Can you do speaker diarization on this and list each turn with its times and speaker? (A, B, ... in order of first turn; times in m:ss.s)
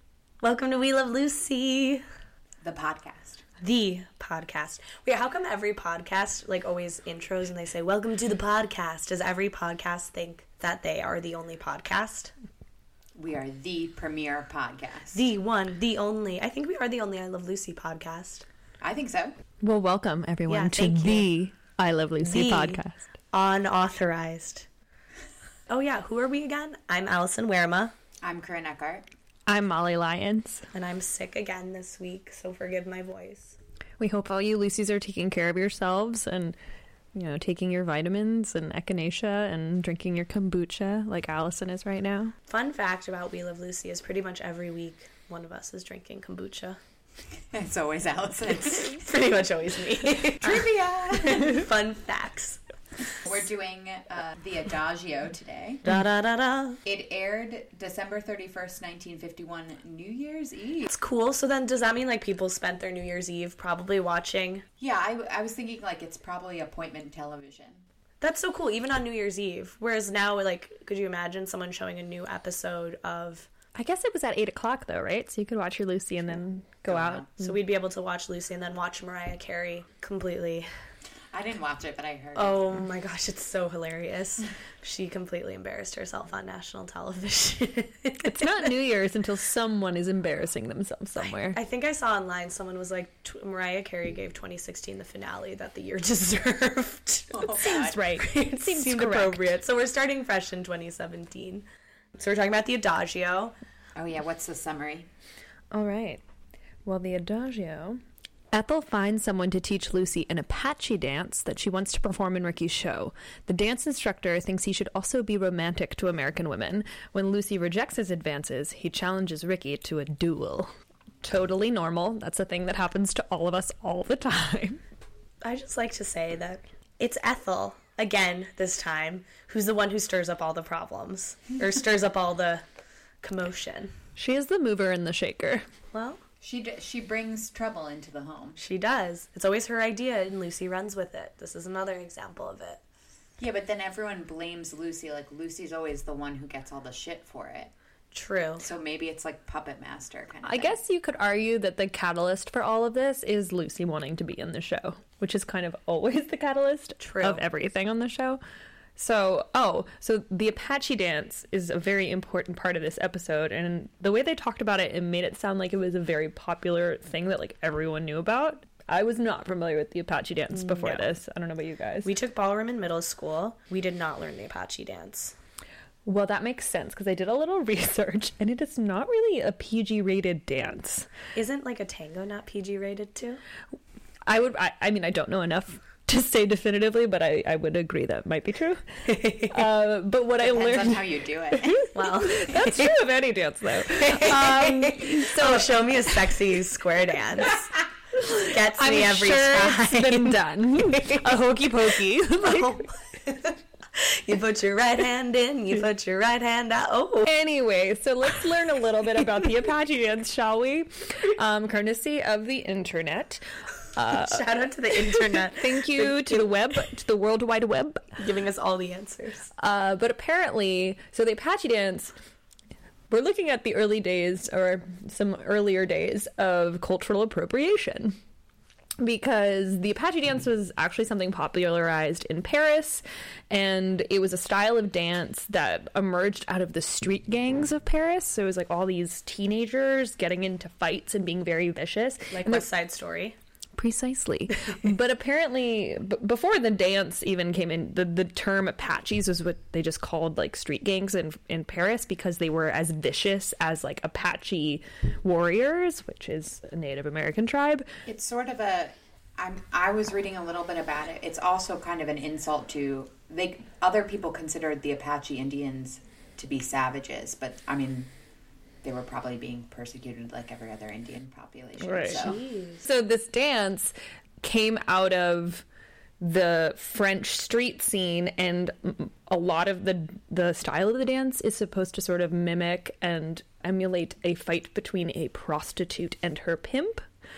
0:00.4-0:02.0 A
0:02.6-0:03.4 B
0:03.6-0:12.3 A
0:13.2-0:15.2 B
0:15.1-0:18.5 A
0:18.8-0:19.3 B
0:19.6-0:23.0 C
0:20.5-0:21.3 A
0:22.2-0:22.8 A
0:23.3-0:24.7 A
0:25.7-0:27.9 A
0:28.2-0:29.1 B
0:29.5-0:30.7 C
0:30.7-0:33.6 A
0:34.0-0:36.6 C
0:37.1-0:42.4 C
0:42.5-0:46.8 A
0:47.4-0:49.0 B
0:48.6-0:52.6 A
0:50.3-0:51.7 B
0:53.2-0:55.8 B
0:55.8-0:56.8 A
0:56.8-1:00.9 B
1:00.9-1:04.6 A
1:04.8-1:07.9 B
1:08.2-1:13.5 A
1:13.8-1:17.6 C
1:16.9-1:17.3 B
1:17.4-1:20.7 A
1:21.3-1:22.8 B
1:22.4-1:28.7 A
1:28.2-1:31.6 C
1:31.2-1:41.7 A
1:37.3-1:38.0 B
1:37.6-1:39.6 C
1:42.2-1:43.5 A
1:44.0-1:45.1 B
1:45.7-1:46.2 C
1:46.8-2:04.8 C
2:05.4-2:12.6 A
2:13.2-2:13.9 A
2:14.2-2:15.6 C
2:15.9-2:16.2 A
2:16.4-2:18.6 B
2:18.6-2:22.8 A
2:23.4-2:27.7 B
2:28.1-2:28.7 A
2:28.6-2:30.8 B
2:30.4-2:38.4 C
2:37.0-2:37.4 A
2:39.0-2:52.1 C
2:50.5-2:51.1 A
2:52.0-2:55.4 A
2:56.1-3:01.1 C
3:01.3-3:03.4 A
3:04.3-3:16.4 C
3:09.1-3:09.6 A
3:10.4-3:11.9 B
3:11.9-3:12.9 A
3:13.8-3:27.3 A
3:18.1-3:22.8 C
3:27.2-3:38.2 C
3:34.1-3:36.4 A
3:38.2-3:39.5 A
3:39.6-3:42.1 C
3:43.1-3:48.2 C
3:49.0-4:02.7 C
4:02.3-4:03.4 A
4:03.8-4:17.9 C
4:18.1-4:28.1 B
4:28.8-4:32.4 B
4:31.8-4:35.6 C
4:32.0-4:32.8 A
4:36.2-4:47.0 C